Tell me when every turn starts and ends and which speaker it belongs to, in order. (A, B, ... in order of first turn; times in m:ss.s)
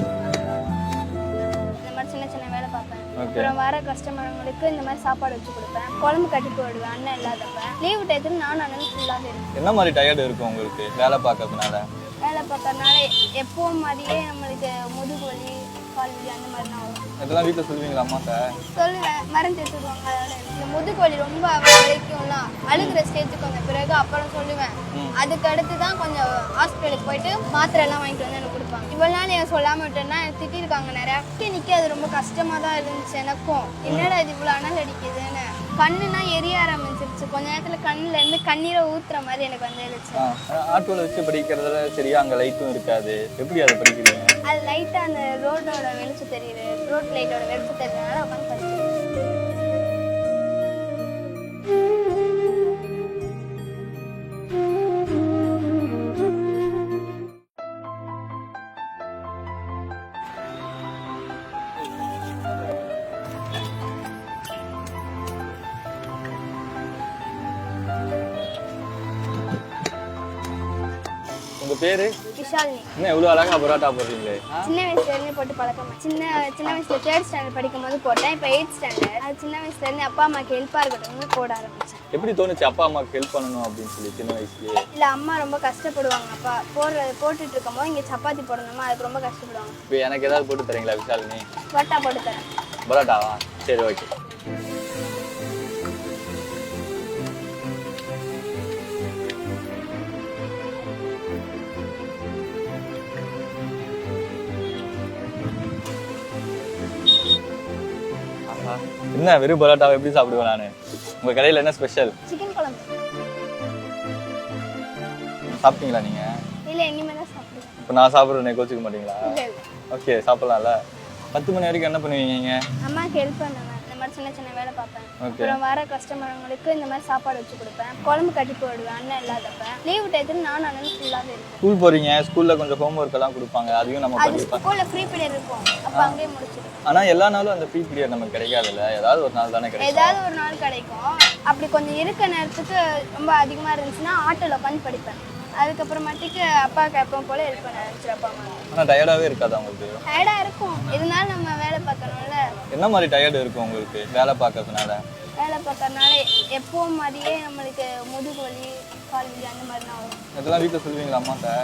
0:01.8-0:09.5 A
0:03.2-0:03.5 B
0:09.6-0:11.8 B
0:12.2-0:17.0 A
0:17.2-0:18.5 B
0:18.8-0:40.3 A
0:33.9-0:34.1 B
0:40.2-0:44.3 B
0:44.5-0:48.9 A
1:11.6-1:12.2 B
1:12.4-1:12.9 A
1:13.0-1:14.7 B
1:14.6-1:22.0 A
1:22.1-1:24.8 B
1:24.9-1:29.8 A
1:29.9-1:31.5 B
1:31.7-1:32.5 A
1:32.9-1:34.1 B
1:48.5-1:52.2 B
1:52.3-1:52.9 A
1:55.5-1:56.3 B
1:56.7-1:57.8 A
1:57.8-1:59.4 B
1:59.2-1:59.6 A
1:59.9-2:00.8 B
2:01.3-2:02.6 B
2:02.8-2:11.6 A
2:05.2-2:05.6 B
2:11.6-2:14.6 B
2:14.2-2:16.8 A
2:16.8-2:20.2 B
2:19.8-2:28.6 A
2:28.7-2:30.0 B
2:30.1-2:32.4 A
2:32.7-2:35.0 B
2:35.4-2:40.2 A
2:40.4-2:41.6 B